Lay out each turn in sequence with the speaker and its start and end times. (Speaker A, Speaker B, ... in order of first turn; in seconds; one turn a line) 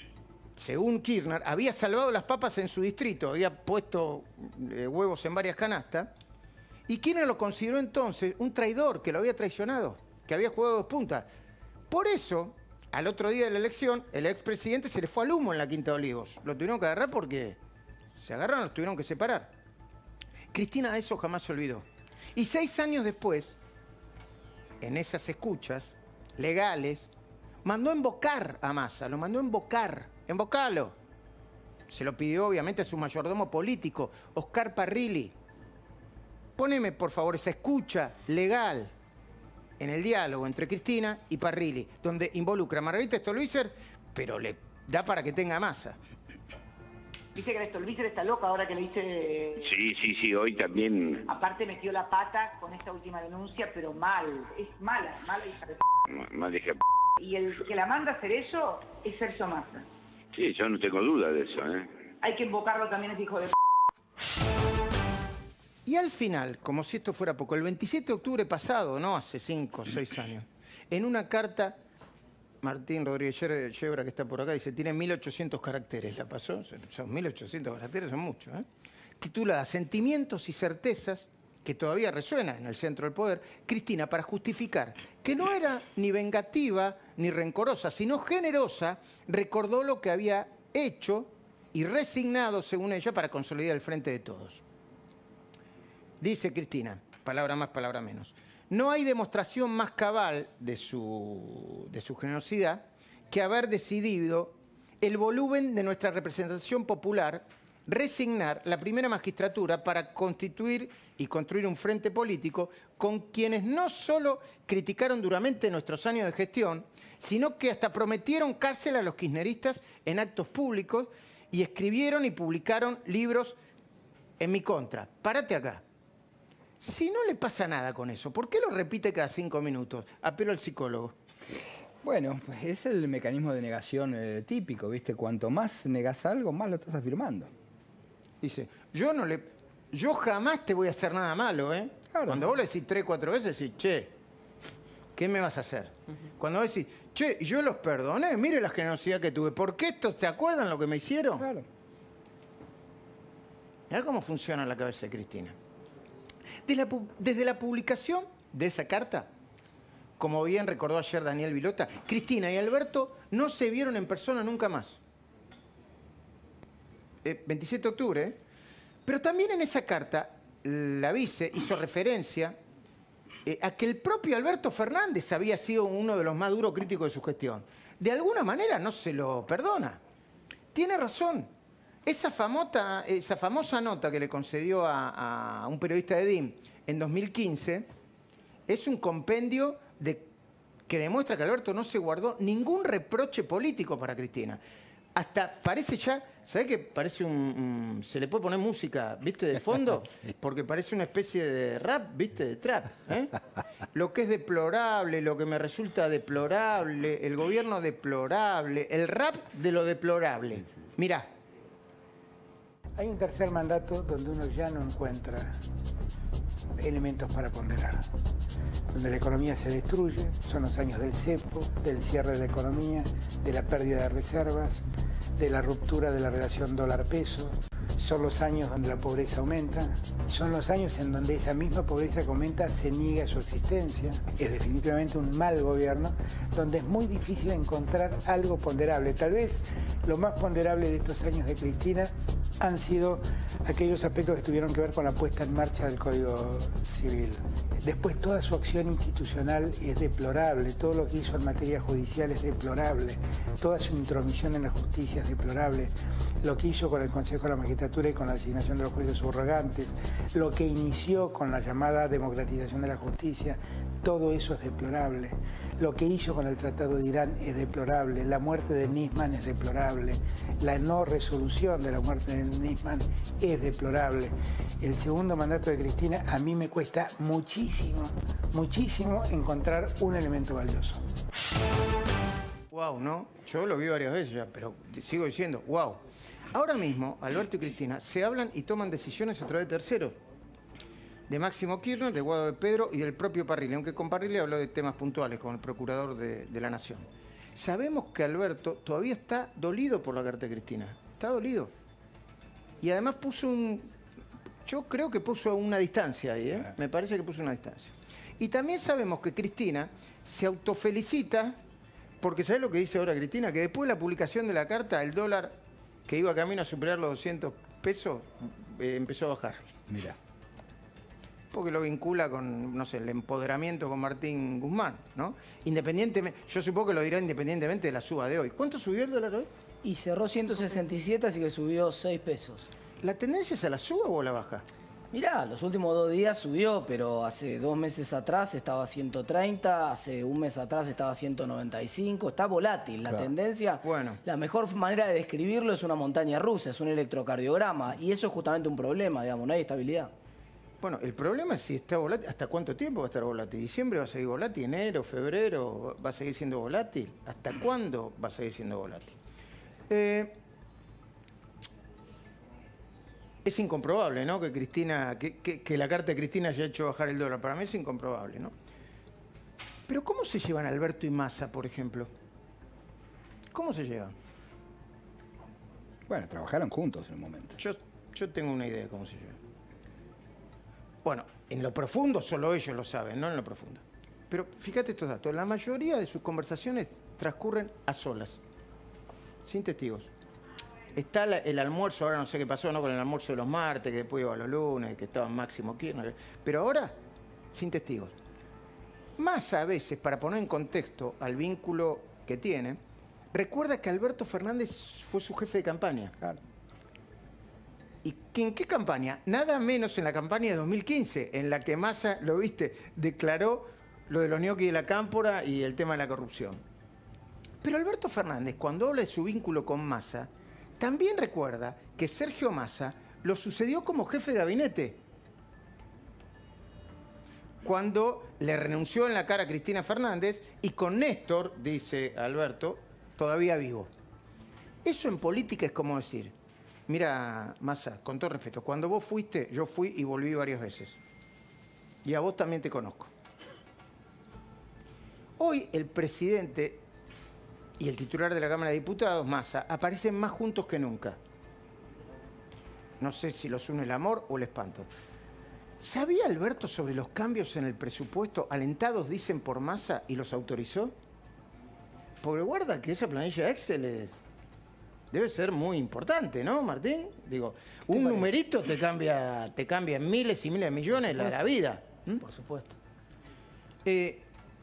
Speaker A: 0.6-6.1
Speaker A: 6.9-11.2
Speaker A: 11.9-17.6
Speaker A: 18.1-19.5
Speaker A: 20.5-23.5
Speaker A: 24.8-27.1
Speaker A: 27.6-30.9
Speaker A: 31.9-35.3
Speaker A: 36.6-38.9
Speaker A: 39.8-46.0
Speaker B: 47.3-49.7
Speaker C: 49.6-51.2
Speaker B: 51.2-55.8
Speaker C: 56.1-56.8
Speaker B: 57.2-59.9
Speaker C: 60.3-61.9
Speaker B: 62.2-63.5
Speaker A: 65.8-71.8
Speaker A: 72.6-78.7
Speaker A: 79.2-94.6
Speaker A: 96.2-123.5
Speaker A: 124.4-125.8
Speaker A: 126.8-131.2
Speaker D: 132.0-137.5
Speaker A: 138.4-144.1
Speaker D: 142.1-142.5
Speaker A: 145.2-151.5
Speaker D: 151.4-151.7
Speaker A: 153.9-155.6
Speaker A: 156.7-159.3
Speaker A: 160.2-165.0
Speaker A: 167.2-168.4
Speaker A: 169.1-172.6
Speaker A: 173.4-180.0
Speaker A: 180.7-181.5
Speaker A: 182.1-187.8
Speaker A: 188.7-190.3
Speaker A: 190.9-194.6
Speaker A: 195.1-203.3
Speaker A: 203.9-211.3
Speaker E: 213.0-215.5
Speaker E: 216.8-218.0
Speaker E: 218.9-224.8
Speaker E: 225.4-242.1
Speaker E: 242.6-255.9
Speaker E: 256.4-281.0
Speaker A: 282.7-286.0
Speaker A: 286.5-290.2
Speaker A: 291.3-301.7
Speaker A: 302.8-303.9
Speaker A: 304.6-311.6
Speaker A: 312.2-319.7
Speaker D: 319.9-320.1
Speaker A: 321.5-329.5
Speaker F: 329.8-332.7
Speaker A: 333.0-334.6
Speaker F: 335.1-350.1
Speaker A: 343.8-344.2
Speaker A: 350.8-359.2
Speaker A: 359.9-360.4
Speaker A: 363.4-368.5
Speaker A: 369.9-372.1
Speaker A: 373.5-374.1
Speaker D: 376.1-377.6
Speaker A: 377.6-379.4
Speaker A: 381.0-388.4
Speaker A: 389.4-390.1
Speaker A: 390.9-396.9
Speaker A: 397.5-398.1
Speaker A: 399.2-402.8
Speaker A: 403.3-406.1
Speaker A: 408.0-416.6
Speaker A: 417.6-425.0
Speaker A: 427.6-433.9
Speaker A: 434.8-436.3
Speaker A: 436.9-441.0
Speaker A: 442.0-443.1
Speaker A: 445.4-446.8
Speaker A: 447.8-451.2
Speaker A: 453.0-454.9
Speaker A: 455.8-460.9
Speaker A: 462.2-464.2
Speaker A: 465.1-472.2
Speaker F: 467.9-468.3
Speaker F: 471.0-471.5
Speaker F: 472.2-472.7
Speaker A: 473.8-474.3